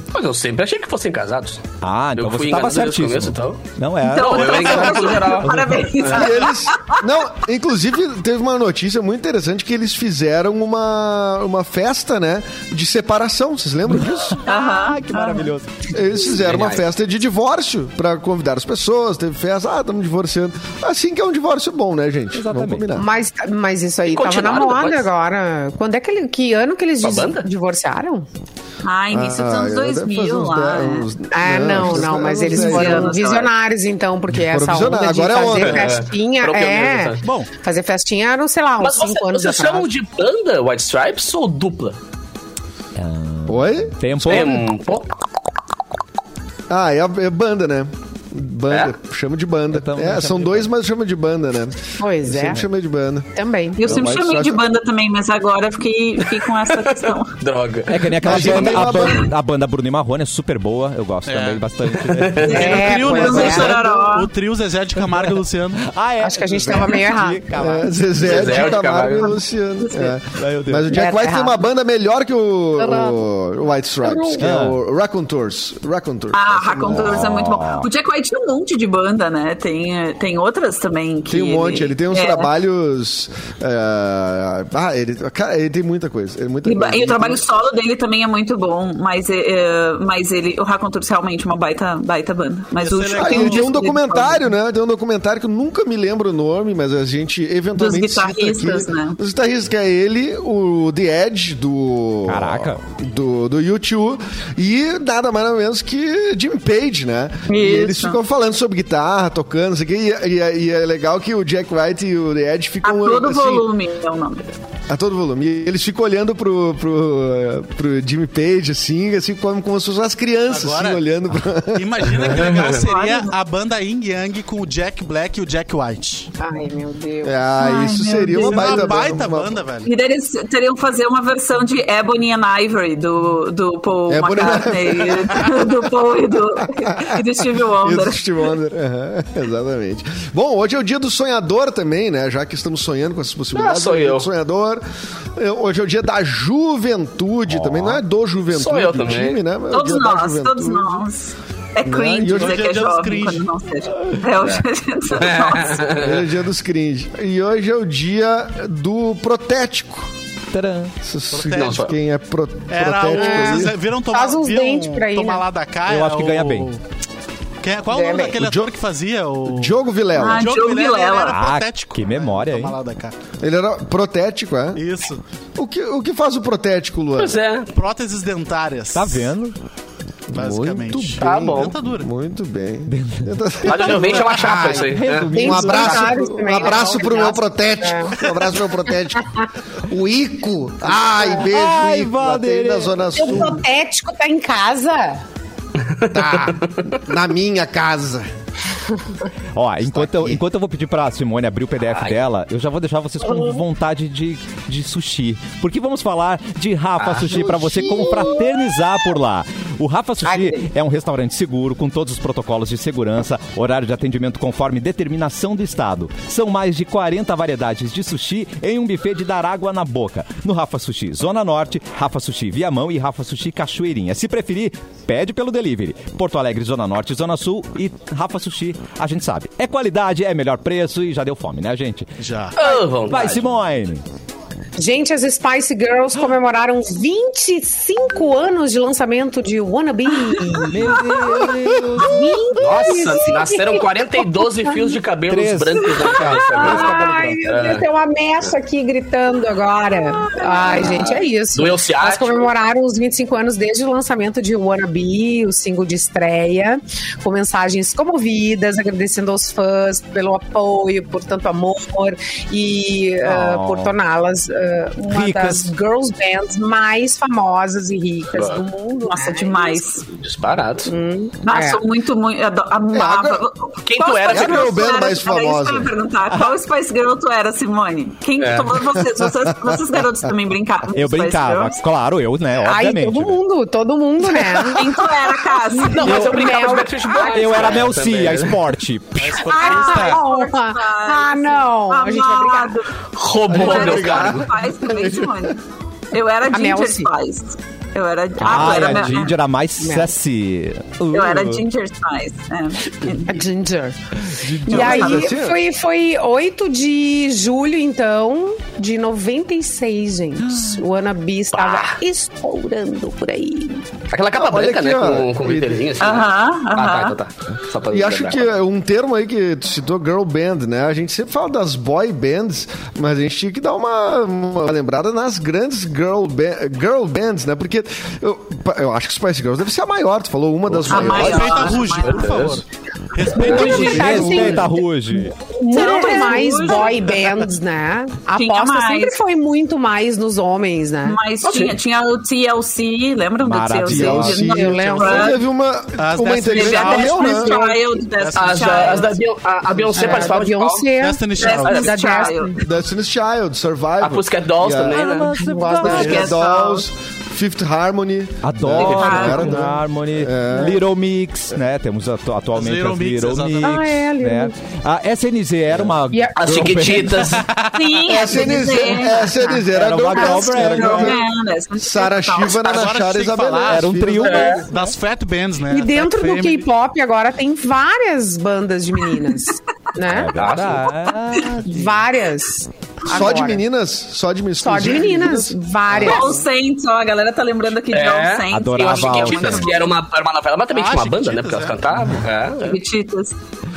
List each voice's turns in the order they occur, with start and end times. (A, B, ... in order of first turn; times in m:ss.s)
0:00.1-0:01.6 A
0:01.8-0:05.9 B
0:02.2-0:03.6 A
0:04.0-0:07.0 C
0:04.1-0:06.3 A
0:06.1-0:14.4 D
0:13.9-0:15.9 B
0:14.4-0:15.5 C
0:15.9-0:23.1 D
0:16.4-0:16.8 A
0:22.3-0:22.9 B
0:23.0-0:28.2 E
0:24.0-0:25.1 A
0:27.0-0:27.4 A
0:28.8-0:31.1 C
0:29.1-0:33.1 D
0:31.3-0:39.9 E
0:32.4-0:33.5 C
0:34.3-0:35.9 D
0:35.4-0:37.2 A
0:37.2-0:37.5 F
0:38.8-0:42.0 A
0:43.0-0:44.6 B
0:43.5-0:44.5 D
0:44.2-0:45.1 A
0:46.7-0:54.6 D
0:49.7-0:50.7 B
0:52.0-0:52.6 E
0:53.3-0:53.8 E
0:53.8-0:57.4 C
0:56.7-0:59.2 A
0:57.9-1:02.8 B
0:58.2-0:59.3 D
1:01.2-1:01.6 F
1:02.0-1:02.6 A
1:02.4-1:04.3 C
1:02.4-1:03.8 E
1:02.5-1:05.8 F
1:05.0-1:07.9 B
1:06.2-1:07.4 E
1:07.5-1:17.3 D
1:08.2-1:09.3 A
1:09.2-1:10.2 C
1:10.4-1:11.0 B
1:10.9-1:11.6 E
1:12.8-1:13.2 E
1:14.0-1:14.4 E
1:14.4-1:14.8 B
1:16.3-1:22.5 C
1:17.0-1:17.9 B
1:21.3-1:27.4 D
1:26.6-1:34.5 C
1:32.8-1:33.8 F
1:33.2-1:53.7 D
1:37.8-1:39.2 C
1:42.3-1:42.8 B
1:47.5-1:48.2 C
1:52.8-1:54.5 C
1:54.9-2:02.5 D
2:00.5-2:01.0 F
2:01.7-2:06.3 F
2:02.7-2:03.3 C
2:06.4-2:07.4 E
2:07.2-2:09.6 D
2:07.6-2:08.9 C
2:08.4-2:09.9 F
2:09.8-2:18.5 C
2:14.1-2:15.8 D
2:16.5-2:24.8 D
2:23.5-2:24.3 A
2:25.4-2:31.0 D
2:27.5-2:28.0 B
2:28.5-2:29.4 A
2:29.7-2:35.8 C
2:31.8-2:32.6 D
2:32.3-2:33.5 F
2:34.4-2:36.3 A
2:35.9-2:40.1 D
2:40.5-2:40.9 B
2:41.0-2:43.8 D
2:41.3-2:41.9 F
2:41.5-2:41.9 A
2:42.7-2:46.8 F
2:43.1-2:45.4 E
2:45.9-2:46.7 B
2:47.6-2:49.8 F
2:47.9-2:48.4 E
2:48.4-2:48.7 D
2:49.5-2:50.5 D
2:50.1-2:51.4 C
2:50.3-2:53.1 F
2:51.3-2:52.7 B
2:53.4-2:54.8 D
2:54.7-2:55.2 F
2:55.6-2:57.4 D
2:57.2-2:57.7 A
2:57.7-2:59.3 F
2:58.9-2:59.6 B
3:00.3-3:09.3 D
3:00.3-3:02.1 F
3:01.2-3:01.7 A
3:02.9-3:03.9 B
3:03.6-3:05.3 A
3:03.9-3:04.7 F
3:04.8-3:06.3 B
3:05.3-3:08.2 E
3:06.6-3:07.1 F
3:09.8-3:13.6 D
3:11.0-3:11.4 E
3:11.5-3:13.4 B
3:13.1-3:15.2 E
3:15.9-3:16.9 A
3:16.1-3:18.3 D
3:19.5-3:52.1 B
3:19.8-3:20.4 D
3:23.3-3:23.5 E
3:27.0-3:27.3 A
3:27.3-3:28.3 D
3:30.2-3:30.7 E
3:52.2-3:52.6 F
3:52.6-3:53.4 A
3:53.0-3:54.0 B
3:54.8-4:05.0 E
4:00.7-4:02.4 B
4:02.6-4:07.8 A
4:05.3-4:07.4 B
4:06.2-4:29.8 E
4:10.7-4:12.5 A
4:23.2-4:24.0 B
4:25.0-4:25.7 B
4:28.3-4:28.6 A
4:29.1-4:30.0 C
4:30.2-4:30.9 A
4:30.9-4:31.8 E
4:31.4-4:41.8 C
4:32.9-4:33.4 D
4:33.8-4:34.9 A
4:34.3-4:35.9 D
4:38.4-4:38.8 A
4:39.0-4:40.0 D
4:40.9-4:43.4 B
4:42.6-4:47.8 E
4:44.7-4:47.5 C
4:45.9-4:48.6 A
4:47.2-4:49.4 B
4:49.2-4:50.3 F
4:49.4-4:52.8 E
4:49.5-4:52.9 C
4:53.1-4:54.5 A
4:53.5-4:55.5 D
4:53.5-4:55.6 C
4:56.1-4:59.4 C
4:56.5-4:57.1 E
4:58.4-5:01.6 B
4:59.8-5:00.1 E
5:01.1-5:03.4 C
5:03.2-5:04.0 E
5:04.4-5:05.6 D
5:04.6-5:05.3 C
5:04.7-5:13.8 E
5:11.5-5:12.0 A
5:14.1-5:18.5 A
5:14.3-5:15.9 D
5:16.0-5:17.2 C
5:17.9-5:31.8 D
5:30.7-5:31.4 A
5:30.9-5:32.4 C
5:30.9-5:34.5 F
5:32.0-5:32.6 A
5:33.3-5:35.3 B
5:33.3-5:41.2 E
5:33.4-5:34.6 C
5:35.7-5:37.4 C
5:38.3-5:39.2 C
5:41.0-5:45.4 C
5:41.4-5:41.8 A
5:43.4-5:44.7 B
5:43.8-5:47.6 D
5:44.3-5:45.4 E
5:46.0-5:49.1 F
5:46.4-5:49.2 C
5:48.3-5:50.9 A
5:49.8-5:50.2 F
5:49.9-5:52.6 E
5:51.0-5:52.1 F
5:51.4-5:52.5 C
5:51.6-5:51.9 A
5:52.6-5:55.0 D
5:54.0-5:55.3 A
5:54.9-5:56.2 B
5:55.4-5:56.2 E
5:55.8-5:56.8 C
5:55.8-6:00.8 D
5:56.0-5:56.3 F
5:58.4-6:07.4 B
5:58.8-5:59.5 C
6:02.5-6:03.9 F
6:03.6-6:04.5 E
6:06.1-6:07.2 E
6:06.4-6:07.4 A
6:07.2-6:08.1 F
6:07.7-6:09.3 C
6:08.1-6:11.2 D
6:08.9-6:10.5 E
6:09.7-6:11.2 B
6:10.5-6:12.7 C
6:11.8-6:14.6 D
6:12.6-6:12.9 A
6:12.6-6:16.7 F
6:13.7-6:14.9 B
6:14.2-6:14.6 A
6:15.7-6:20.4 E
6:20.0-6:22.1 B
6:20.3-6:20.9 A
6:21.6-6:23.6 E
6:23.1-6:26.2 D
6:24.6-6:26.4 E
6:26.0-6:29.9 C
6:27.9-6:32.8 A
6:28.5-6:29.7 B
6:30.7-6:31.9 F
6:32.6-6:33.3 C